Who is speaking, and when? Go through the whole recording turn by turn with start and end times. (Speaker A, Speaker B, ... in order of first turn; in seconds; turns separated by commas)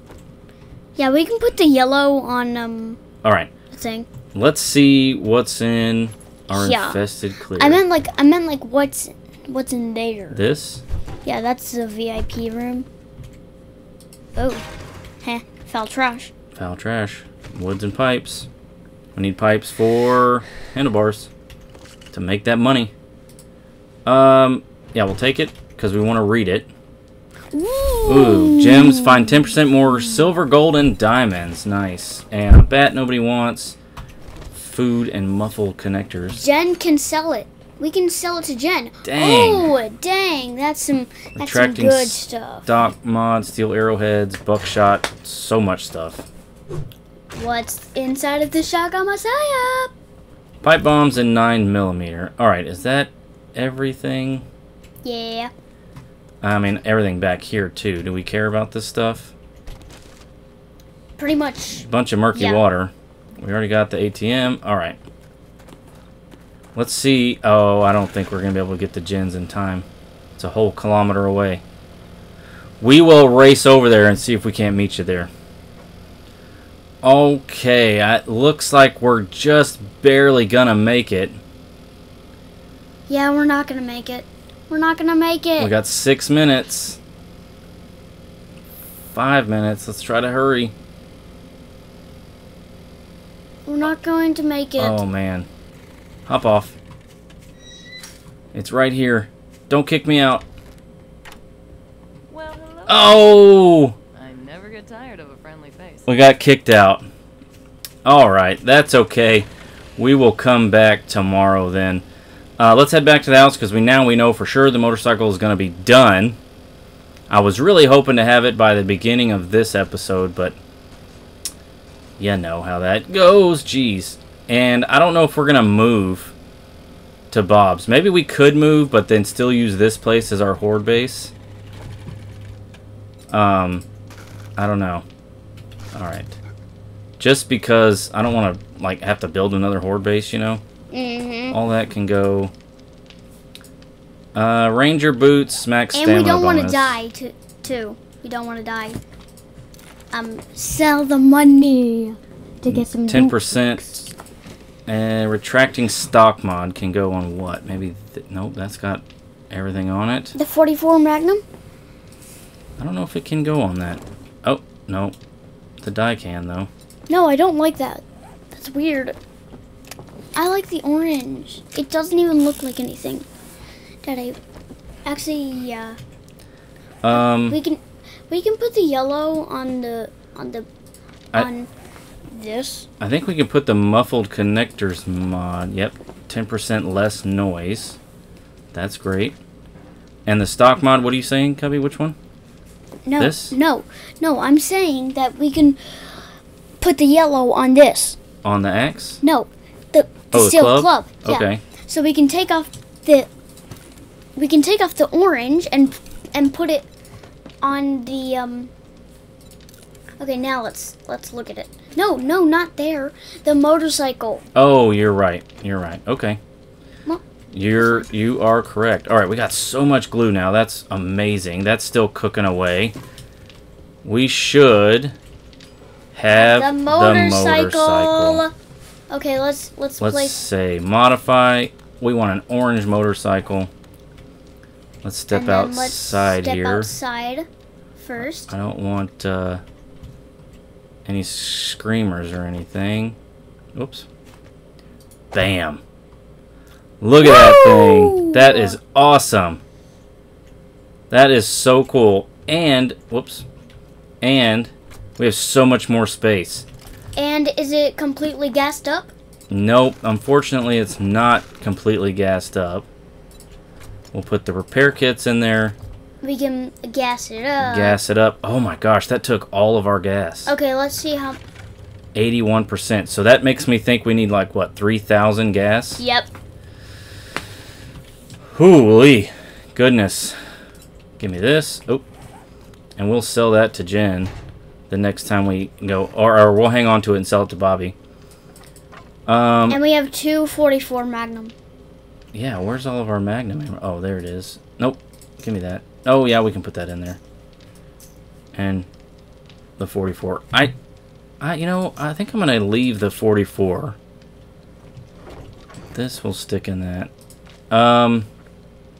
Speaker A: 0.9-3.0, Speaker B: 3.2-3.5, Speaker A: 3.7-4.1, Speaker B: 4.3-7.8, Speaker A: 6.5-7.0, Speaker A: 7.6-10.4, Speaker B: 10.3-10.8, Speaker A: 11.2-12.9, Speaker A: 14.3-14.7, Speaker A: 15.2-16.3, Speaker B: 16.5-18.5, Speaker B: 19.1-21.3, Speaker B: 22.1-22.9, Speaker B: 24.1-26.7, Speaker A: 27.5-30.2, Speaker B: 28.1-33.8, Speaker B: 34.5-36.4, Speaker A: 36.3-42.6, Speaker B: 39.0-39.7, Speaker B: 41.3-46.3, Speaker A: 47.3-49.9, Speaker B: 50.6-54.5, Speaker A: 55.0-55.5, Speaker B: 56.4-59.3, Speaker A: 61.2-62.6, Speaker B: 61.8-65.0, Speaker B: 66.7-69.8, Speaker B: 70.4-71.6, Speaker B: 72.8-75.3, Speaker B: 77.0-81.4, Speaker A: 83.1-85.7, Speaker B: 85.6-87.0, Speaker B: 89.1-90.7, Speaker A: 93.6-95.0, Speaker B: 94.8-95.5, Speaker B: 96.3-96.8, Speaker B: 98.5-100.4, Speaker C: 102.3-106.1, Speaker B: 102.9-103.9, Speaker B: 106.1-107.0, Speaker B: 108.0-112.0, Speaker B: 112.6-116.4, Speaker B: 117.3-120.6, Speaker B: 122.2-126.3, Speaker B: 127.3-131.3, Speaker B: 133.3-133.8, Speaker B: 134.6-135.0, Speaker B: 135.9-136.4, Speaker B: 137.2-140.6, Speaker A: 140.9-141.6, Speaker B: 141.5-142.5, Speaker B: 144.3-147.0, Speaker A: 145.9-149.0, Speaker A: 150.1-153.4, Speaker B: 152.7-154.1, Speaker B: 154.9-160.3, Speaker A: 160.3-161.4, Speaker B: 162.8-165.1, Speaker B: 165.8-166.7, Speaker A: 167.1-169.2, Speaker A: 170.3-173.3, Speaker A: 174.0-174.4, Speaker A: 175.0-176.0, Speaker B: 177.0-177.6, Speaker A: 177.1-180.7, Speaker A: 181.3-181.7, Speaker A: 182.3-182.9, Speaker B: 183.0-188.0, Speaker B: 188.7-189.4, Speaker B: 190.2-192.2, Speaker A: 193.1-196.2, Speaker B: 193.2-193.5, Speaker A: 196.8-198.2, Speaker B: 198.4-199.2, Speaker A: 199.2-203.3, Speaker B: 200.3-201.6, Speaker A: 204.3-206.9, Speaker A: 207.6-208.7, Speaker A: 210.2-214.4, Speaker B: 214.5-216.4, Speaker B: 217.5-222.9, Speaker A: 217.8-218.1, Speaker B: 224.0-225.1, Speaker B: 226.1-228.4, Speaker A: 226.3-228.5, Speaker A: 229.1-230.4, Speaker B: 230.0-233.7, Speaker B: 235.0-236.9, Speaker A: 235.3-238.5, Speaker B: 238.2-239.6, Speaker B: 241.1-243.2, Speaker B: 243.7-244.1, Speaker B: 245.3-245.8, Speaker B: 247.0-249.6, Speaker A: 247.2-248.8, Speaker B: 251.1-253.4, Speaker B: 254.2-256.6, Speaker A: 257.1-259.1, Speaker B: 259.5-262.9, Speaker B: 264.1-265.8, Speaker A: 266.2-268.0, Speaker B: 267.6-270.5, Speaker A: 270.4-271.4, Speaker B: 272.1-276.0, Speaker A: 276.0-276.3, Speaker B: 278.5-280.4, Speaker B: 281.2-282.0, Speaker B: 282.9-284.3, Speaker B: 284.9-287.9, Speaker B: 289.3-289.8, Speaker A: 289.7-291.5, Speaker B: 292.3-297.2, Speaker B: 298.5-298.9, Speaker B: 299.8-300.7, Speaker B: 301.4-304.0, Speaker B: 305.9-307.1, Speaker B: 307.7-308.3